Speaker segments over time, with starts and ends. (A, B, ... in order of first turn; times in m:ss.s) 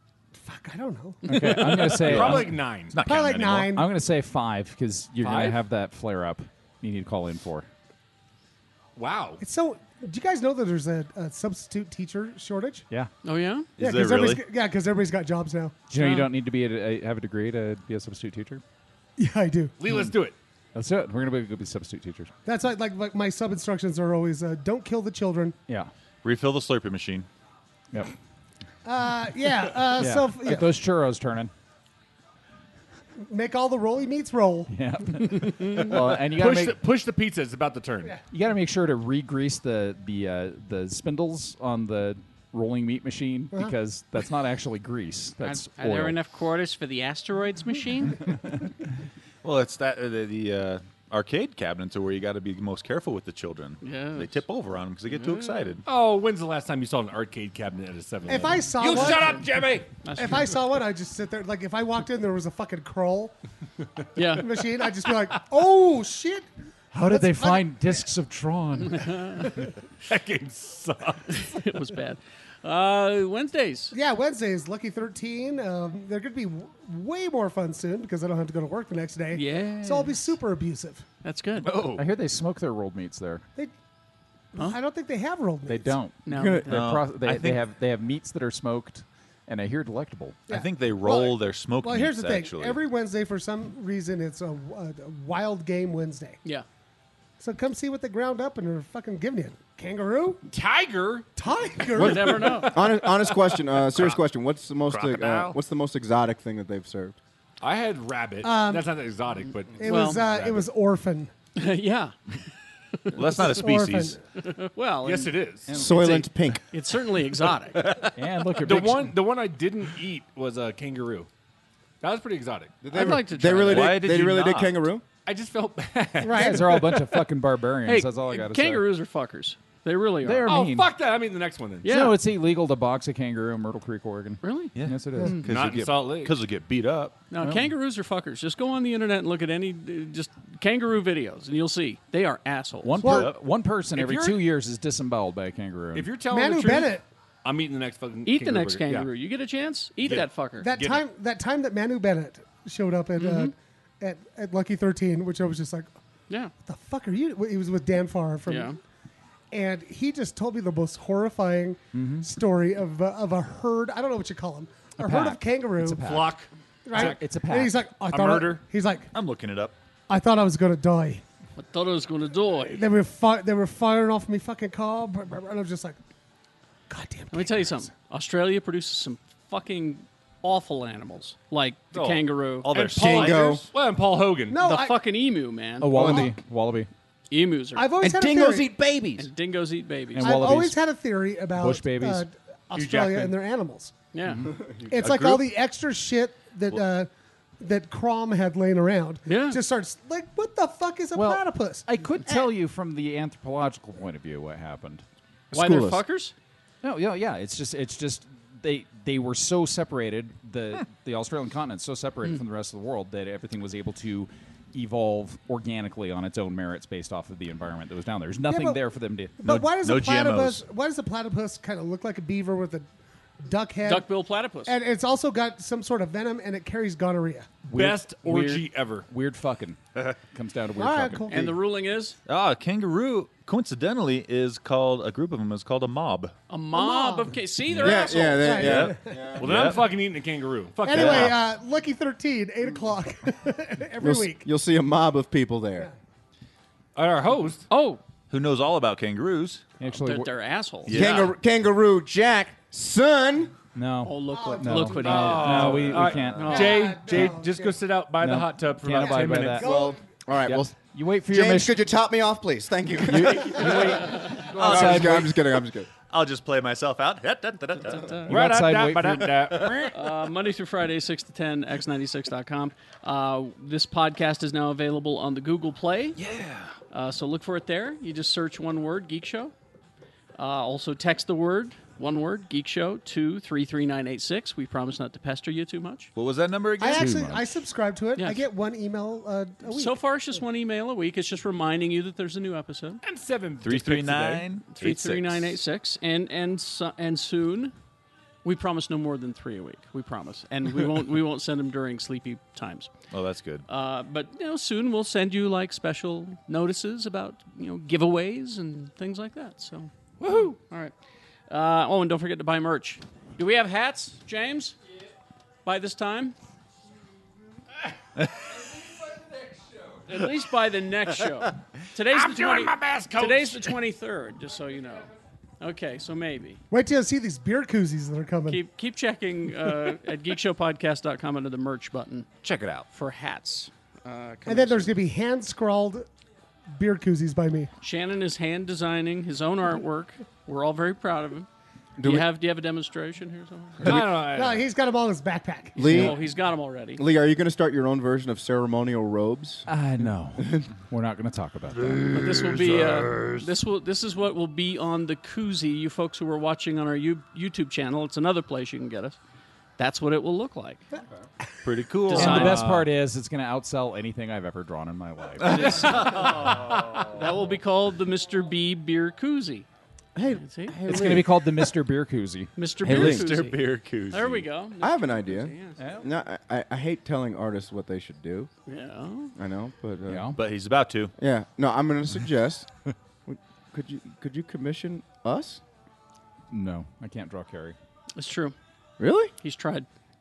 0:00.3-0:01.2 A
0:01.2-0:02.2 B
0:01.2-0:02.8 C
0:01.9-0:03.0 D
0:02.1-0:03.7 E
0:03.0-0:03.9 A
0:03.6-0:07.7 C
0:05.2-0:05.6 D
0:09.0-0:09.4 D
0:09.4-0:12.8 A
0:13.2-0:13.7 B
0:13.8-0:14.4 E
0:13.8-0:15.8 A
0:15.9-0:18.6 C
0:15.9-0:16.3 B
0:19.2-0:19.7 A
0:19.8-0:20.4 D
0:20.7-0:22.3 C
0:22.4-0:25.6 A
0:26.2-0:27.3 E
0:28.8-0:30.8 A
0:30.0-0:31.5 C
0:33.2-0:34.7 A
0:34.7-0:36.8 C
0:35.9-0:38.2 D
0:38.3-0:46.2 C
0:45.4-0:48.2 B
0:49.4-0:55.8 E
0:53.8-0:54.4 B
0:55.1-0:55.8 B
0:55.8-0:59.9 D
0:58.3-0:59.5 A
1:00.0-1:00.5 B
1:00.2-1:03.3 A
1:04.2-1:04.4 B
1:04.3-1:08.0 A
1:06.9-1:09.4 C
1:09.1-1:09.4 B
1:10.0-1:11.5 D
1:11.3-1:13.9 B
1:13.9-1:21.0 A
1:19.3-1:20.2 B
1:21.2-1:21.9 B
1:21.7-1:23.4 C
1:24.5-1:26.0 A
1:25.7-1:30.4 C
1:26.2-1:26.9 B
1:26.3-1:26.6 F
1:26.7-1:27.6 E
1:30.5-1:32.8 E
1:30.5-1:36.4 A
1:37.4-1:40.4 A
1:40.5-1:41.3 D
1:41.4-1:42.7 A
1:41.9-1:43.7 D
1:42.0-1:42.7 B
1:42.0-1:47.2 F
1:44.9-1:45.6 E
1:47.6-1:50.4 D
1:48.4-1:48.9 A
1:49.8-1:51.3 A
1:49.8-1:50.2 B
1:51.6-1:52.4 B
1:53.1-1:54.2 E
1:53.3-1:54.2 A
1:54.4-1:57.9 B
1:55.0-1:55.8 D
1:55.7-1:56.2 C
1:55.7-1:56.6 F
1:58.1-1:59.2 C
1:58.6-2:01.3 D
2:02.0-2:02.8 D
2:02.8-2:05.0 F
2:02.9-2:04.0 B
2:03.6-2:04.8 E
2:05.2-2:07.1 D
2:06.2-2:06.8 A
2:06.3-2:08.9 C
2:07.8-2:10.5 B
2:10.2-2:10.9 C
2:10.4-2:12.0 D
2:11.8-2:12.2 B
2:11.8-2:15.5 C
2:14.4-2:15.4 B
2:14.7-2:17.1 E
2:15.4-2:16.3 D
2:17.3-2:23.1 B
2:17.4-2:17.7 C
2:22.8-2:26.1 C
2:23.0-2:23.3 A
2:23.0-2:23.4 E
2:23.9-2:24.5 D
2:25.9-2:29.1 D
2:26.3-2:27.0 A
2:28.2-2:30.7 B
2:30.0-2:31.0 D
2:30.6-2:35.9 A
2:33.2-2:33.5 B
2:36.6-2:38.8 A
2:38.5-2:38.8 B
2:39.5-2:46.0 A
2:41.9-2:42.3 C
2:45.0-2:46.4 C
2:46.0-2:47.4 D
2:46.8-2:49.1 A
2:46.9-2:47.9 C
2:48.1-2:48.6 D
2:49.1-2:49.7 E
2:50.1-2:51.2 A
2:51.6-2:52.8 B
2:52.7-2:56.0 A
2:56.9-2:57.9 A
2:57.3-3:02.7 B
3:01.9-3:03.5 E
3:02.7-3:04.6 D
3:03.0-3:03.6 F
3:04.5-3:05.0 A
3:04.6-3:06.3 B
3:05.8-3:06.9 C
3:06.0-3:06.3 F
3:07.3-3:07.9 B
3:07.8-3:08.8 A
3:09.2-3:10.5 B
3:10.1-3:10.8 C
3:10.2-3:13.9 A
3:11.5-3:12.2 C
3:12.7-3:13.4 D
3:14.1-3:14.4 B
3:14.3-3:14.5 C
3:14.4-3:15.3 F
3:14.9-3:17.1 A
3:15.0-3:15.4 E
3:17.6-3:22.6 A
3:19.2-3:19.6 B
3:21.1-3:25.0 C
3:25.5-3:26.0 F
3:25.5-3:26.3 B
3:26.8-3:39.6 C
3:38.4-3:38.8 A
3:39.4-3:42.9 A
3:39.4-3:40.6 E
3:43.4-3:44.1 A
3:43.8-3:44.8 B
3:44.6-3:47.6 A
3:47.6-3:51.5 C
3:47.7-3:49.1 D
3:50.8-3:51.5 A
3:51.3-3:52.2 B
3:52.2-3:56.3 E
3:56.5-3:58.5 B
3:56.7-3:59.4 A
3:57.8-3:59.7 F
3:57.9-3:59.9 E
3:59.4-4:01.4 D
4:00.8-4:04.4 A
4:00.9-4:01.3 E
4:04.0-4:05.9 F
4:06.9-4:07.6 D
4:07.7-4:08.0 B
4:08.3-4:09.6 E
4:09.8-4:10.3 C
4:09.9-4:10.9 B
4:10.8-4:11.3 E
4:10.9-4:13.5 F
4:13.7-4:16.8 C
4:14.0-4:16.7 B
4:14.3-4:17.8 A
4:15.0-4:19.6 D
4:18.2-4:19.7 C
4:19.0-4:20.0 A
4:19.6-4:25.9 F
4:20.4-4:21.8 C
4:23.0-4:25.4 C
4:24.5-4:25.3 E
4:26.1-4:28.2 E
4:27.9-4:28.3 B
4:28.3-4:29.6 C
4:28.3-4:30.0 D
4:29.5-4:29.9 E
4:29.9-4:36.2 B
4:36.2-4:36.7 E
4:36.9-4:39.5 B
4:40.4-4:46.1 B
4:46.1-4:47.2 E
4:46.8-4:50.0 A
4:47.0-4:47.4 C
4:48.2-4:48.4 B
4:49.7-4:53.0 B
4:53.0-4:54.4 D
4:53.6-4:55.6 E
4:54.7-4:57.7 B
4:58.4-5:02.9 B
5:03.1-5:03.6 E
5:03.7-5:10.9 B
5:10.2-5:10.5 D
5:11.5-5:14.8 B
5:15.6-5:16.3 B
5:20.1-5:26.6 B
5:22.1-5:23.7 D
5:26.7-5:28.6 A
5:28.5-5:32.3 B
5:32.4-5:32.8 E
5:32.9-5:35.0 B
5:34.4-5:36.1 A
5:36.7-5:37.7 A
5:37.8-5:41.5 B
5:42.0-5:42.3 F
5:42.0-5:43.9 B
5:43.8-5:44.7 D
5:43.9-5:45.9 A
5:45.7-5:46.2 F
5:45.8-5:47.0 B
5:47.0-5:49.7 F
5:49.7-5:52.2 C
5:50.4-5:50.7 F
5:52.1-5:59.2 B
5:59.8-6:00.8 B
6:01.6-6:02.8 E
6:02.1-6:02.7 B
6:02.1-6:06.1 C
6:05.4-6:09.7 B
6:05.5-6:07.4 E
6:10.1-6:11.3 F
6:10.3-6:10.8 B
6:10.8-6:13.1 C
6:12.6-6:15.8 B
6:12.8-6:13.2 F
6:12.8-6:14.4 E
6:14.8-6:18.5 F
6:15.8-6:16.0 C
6:18.7-6:19.3 B
6:19.4-6:20.3 F
6:20.1-6:20.4 C
6:20.4-6:21.1 E
6:21.2-6:22.7 F
6:23.2-6:25.6 F
6:26.5-6:27.8 C
6:28.2-6:28.5 B
6:29.0-6:29.3 F
6:29.4-6:29.9 B